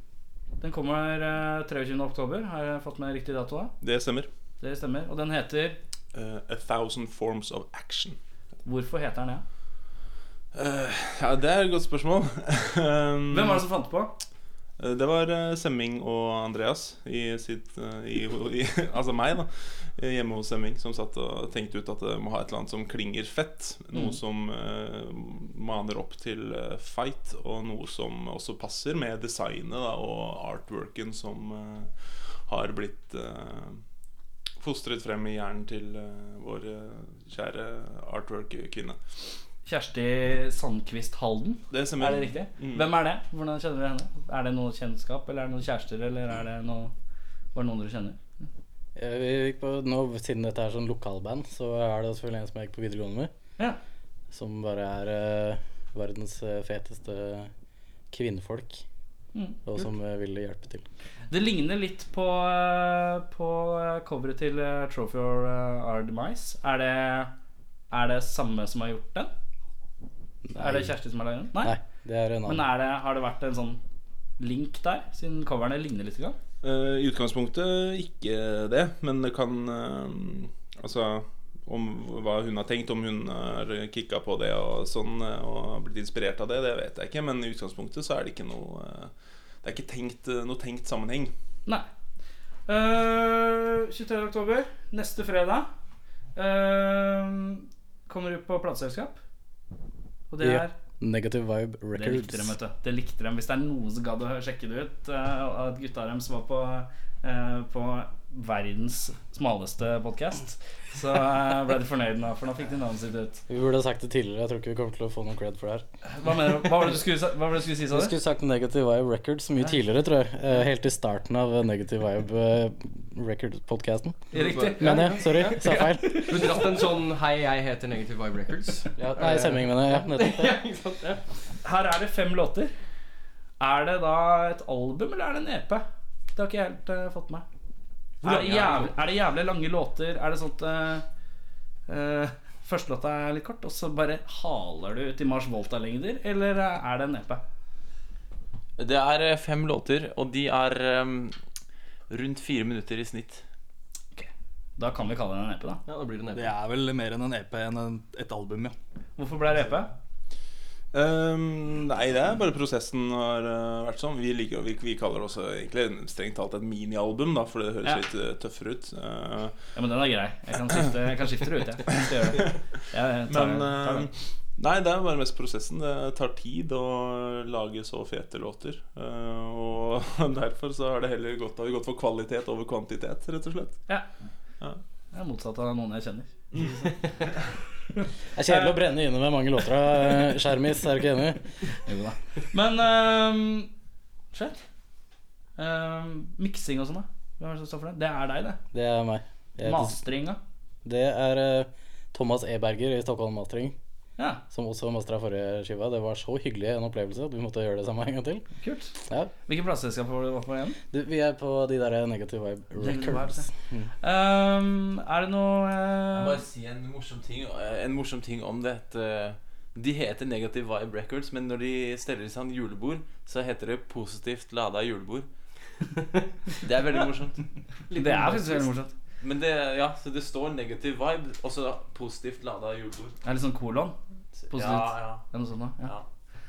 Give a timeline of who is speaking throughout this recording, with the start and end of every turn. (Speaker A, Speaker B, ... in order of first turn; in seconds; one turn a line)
Speaker A: 0.6-3.7
Speaker B: 3.8-4.3
Speaker A: 4.6-5.8
Speaker B: 6.1-8.2
Speaker A: 8.6-9.4
Speaker B: 10.5-13.6
Speaker A: 13.3-14.1
Speaker B: 14.8-31.9
Speaker A: 23.9-24.2
Speaker B: 32.5-33.8
Speaker B: 34.6-39.0
Speaker A: 39.6-46.9
Speaker B: 41.7-42.9
Speaker A: 47.5-48.2
Speaker C: 49.0-53.3
Speaker C: 54.3-57.5
Speaker C: 58.1-58.8
Speaker C: 59.6-60.8
Speaker A: 61.3-67.3
Speaker A: 67.9-69.3
Speaker C: 70.5-70.9
Speaker A: 70.6-71.7
Speaker C: 71.6-72.6
Speaker A: 72.5-73.8
Speaker A: 74.4-76.4
Speaker B: 76.6-89.1
Speaker B: 89.6-91.3
Speaker A: 92.7-95.7
Speaker A: 96.3-99.2
Speaker A: 100.3-100.7
Speaker C: 100.4-102.5
Speaker A: 101.9-113.4
Speaker C: 113.5-115.8
Speaker A: 116.0-118.1
Speaker C: 117.9-124.2
Speaker A: 124.3-126.6
Speaker D: 124.3-131.2
Speaker C: 124.8-126.5
Speaker C: 128.9-130.6
Speaker A: 131.6-132.7
Speaker A: 133.6-137.4
Speaker D: 138.2-138.9
Speaker A: 138.2-141.0
Speaker A: 141.9-147.4
Speaker E: 148.8-151.3
Speaker E: 152.1-153.4
Speaker A: 154.1-155.8
Speaker D: 155.9-156.5
Speaker F: 156.3-158.7
Speaker A: 159.2-159.9
Speaker B: 160.9-169.6
Speaker A: 169.7-174.1
Speaker B: 173.3-183.8
Speaker A: 185.1-186.3
Speaker B: 186.5-187.0
Speaker C: 188.3-191.4
Speaker A: 188.5-188.8
Speaker A: 191.7-193.7
Speaker A: 194.3-194.6
Speaker A: 195.6-198.6
Speaker C: 198.7-200.0
Speaker A: 199.6-200.4
Speaker C: 200.8-203.7
Speaker C: 204.5-208.4
Speaker A: 208.6-208.9
Speaker A: 209.5-210.8
Speaker C: 210.9-213.9
Speaker A: 212.8-213.5
Speaker A: 214.0-216.4
Speaker E: 216.1-225.3
Speaker E: 226.5-227.4
Speaker D: 227.9-228.7
Speaker A: 227.9-228.9
Speaker E: 229.2-233.2
Speaker A: 233.2-234.0
Speaker E: 234.4-235.2
Speaker A: 234.5-235.9